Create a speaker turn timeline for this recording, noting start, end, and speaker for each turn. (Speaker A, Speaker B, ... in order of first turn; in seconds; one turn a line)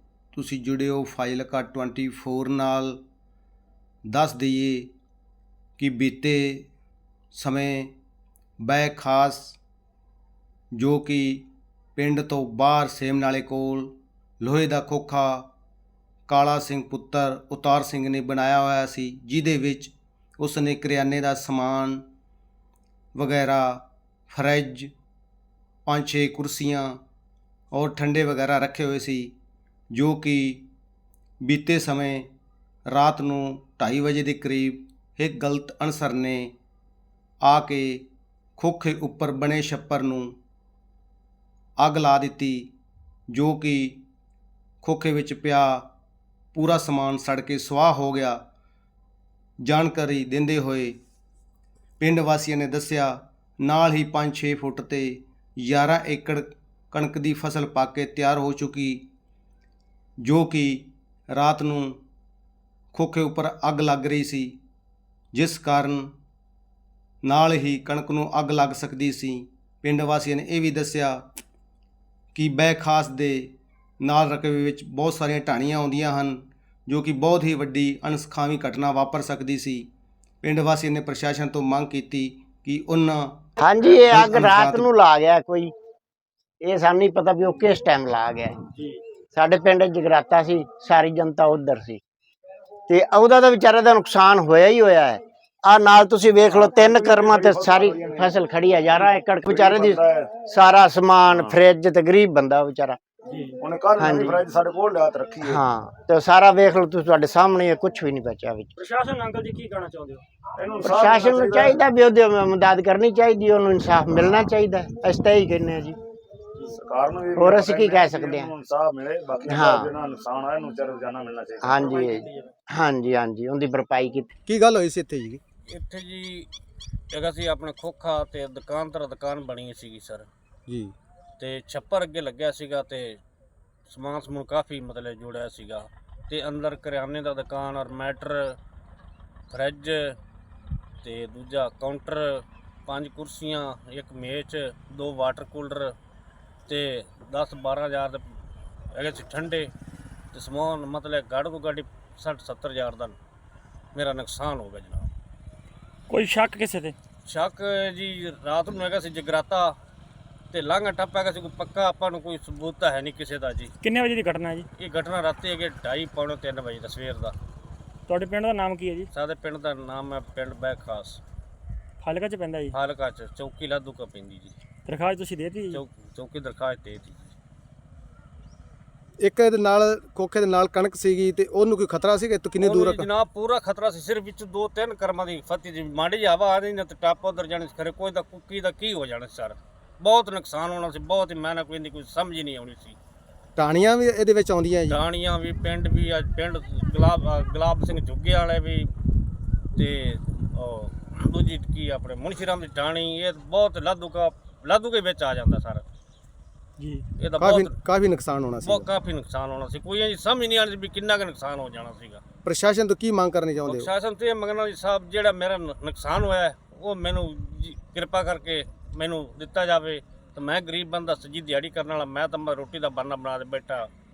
Speaker A: 0.3-3.0
Speaker A: 4.1-4.9
Speaker A: 5.8-6.7
Speaker A: 7.3-7.9
Speaker A: 8.6-9.6
Speaker A: 10.8-11.4
Speaker A: 12.0-15.5
Speaker A: 16.3-22.0
Speaker A: 23.2-24.9
Speaker A: 25.9-27.0
Speaker A: 27.7-29.3
Speaker A: 29.9-30.6
Speaker A: 31.4-32.3
Speaker A: 32.9-36.5
Speaker A: 37.4-40.4
Speaker A: 41.8-42.7
Speaker A: 43.3-44.0
Speaker A: 44.8-45.9
Speaker A: 46.5-48.4
Speaker A: 49.6-51.0
Speaker A: 52.0-59.1
Speaker A: 60.2-62.0
Speaker A: 62.9-64.6
Speaker A: 65.3-66.1
Speaker A: 67.2-71.2
Speaker A: 72.3-79.9
Speaker A: 80.4-84.9
Speaker B: 83.6-85.7
Speaker B: 86.6-88.6
Speaker B: 89.3-92.0
Speaker B: 92.9-103.0
Speaker C: 96.5-100.4
Speaker C: 101.3-101.6
Speaker D: 103.3-103.5
Speaker C: 103.6-105.6
Speaker B: 104.0-104.4
Speaker B: 105.4-108.7
Speaker D: 108.8-110.2
Speaker C: 110.6-111.8
Speaker B: 110.8-116.0
Speaker C: 116.7-122.0
Speaker B: 117.4-118.5
Speaker B: 119.5-119.9
Speaker B: 121.6-124.3
Speaker D: 122.0-122.5
Speaker A: 124.5-125.4
Speaker E: 125.7-126.5
Speaker E: 127.1-130.3
Speaker A: 130.7-130.9
Speaker E: 131.4-133.2
Speaker E: 133.9-138.6
Speaker E: 139.5-140.2
Speaker E: 141.0-145.9
Speaker E: 146.7-148.3
Speaker E: 148.9-149.7
Speaker E: 150.3-153.2
Speaker E: 153.9-155.1
Speaker D: 156.1-157.0
Speaker E: 157.2-159.8
Speaker E: 160.5-163.7
Speaker D: 163.8-164.7
Speaker E: 164.7-167.4
Speaker D: 168.1-169.1
Speaker E: 169.1-171.2
Speaker D: 172.0-172.8
Speaker E: 172.7-174.6
Speaker D: 174.8-175.8
Speaker E: 175.7-177.3
Speaker A: 179.2-183.1
Speaker E: 182.6-193.0
Speaker A: 193.6-195.0
Speaker E: 194.9-198.9
Speaker E: 199.8-205.8
Speaker D: 206.8-207.1
Speaker E: 207.2-207.7
Speaker A: 207.4-208.9
Speaker E: 208.6-212.2
Speaker A: 212.4-213.9
Speaker E: 213.7-223.9